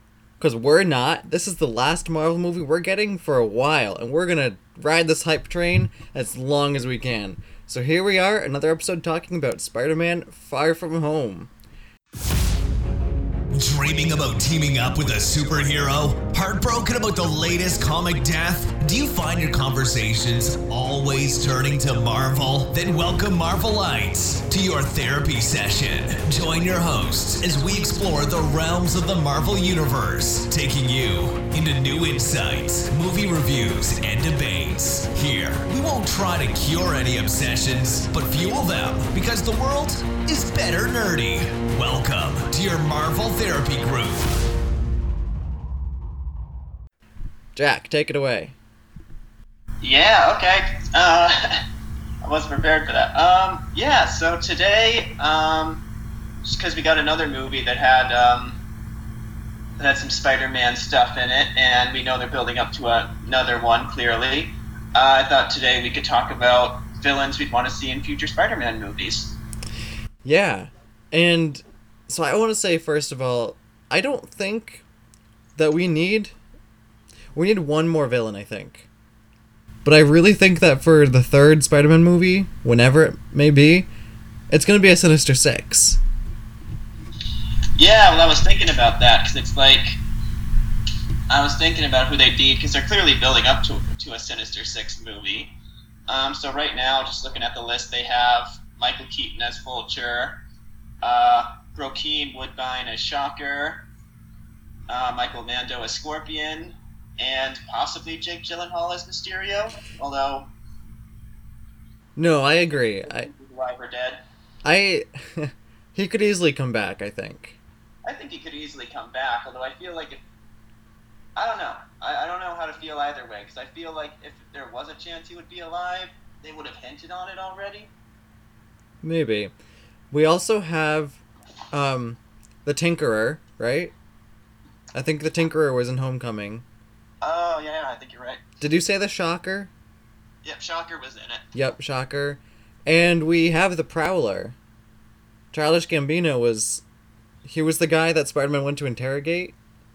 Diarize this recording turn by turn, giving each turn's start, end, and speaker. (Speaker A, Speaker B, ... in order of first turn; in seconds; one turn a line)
Speaker A: 0.4-11.5
Speaker B: 13.5-44.3
Speaker A: 47.6-48.6
Speaker C: 49.8-51.6
Speaker C: 52.2-55.8
Speaker C: 56.4-58.6
Speaker C: 59.8-69.4
Speaker A: 70.2-74.8
Speaker A: 75.6-76.4
Speaker A: 77.3-78.9
Speaker A: 79.8-83.9
Speaker A: 84.5-86.0
Speaker C: 87.8-90.0
Speaker C: 91.3-95.5
Speaker C: 96.1-100.4
Speaker C: 101.0-103.9
Speaker C: 104.9-110.5
Speaker A: 112.2-113.3
Speaker C: 112.9-114.2
Speaker A: 114.6-117.6
Speaker C: 118.1-120.2
Speaker C: 121.4-127.9
Speaker A: 129.0-129.5
Speaker A: 130.1-131.2
Speaker A: 131.7-133.9
Speaker A: 134.9-136.7
Speaker C: 137.2-138.4
Speaker A: 138.6-139.7
Speaker C: 140.4-141.5
Speaker A: 141.5-144.6
Speaker A: 145.5-146.8
Speaker A: 147.4-149.6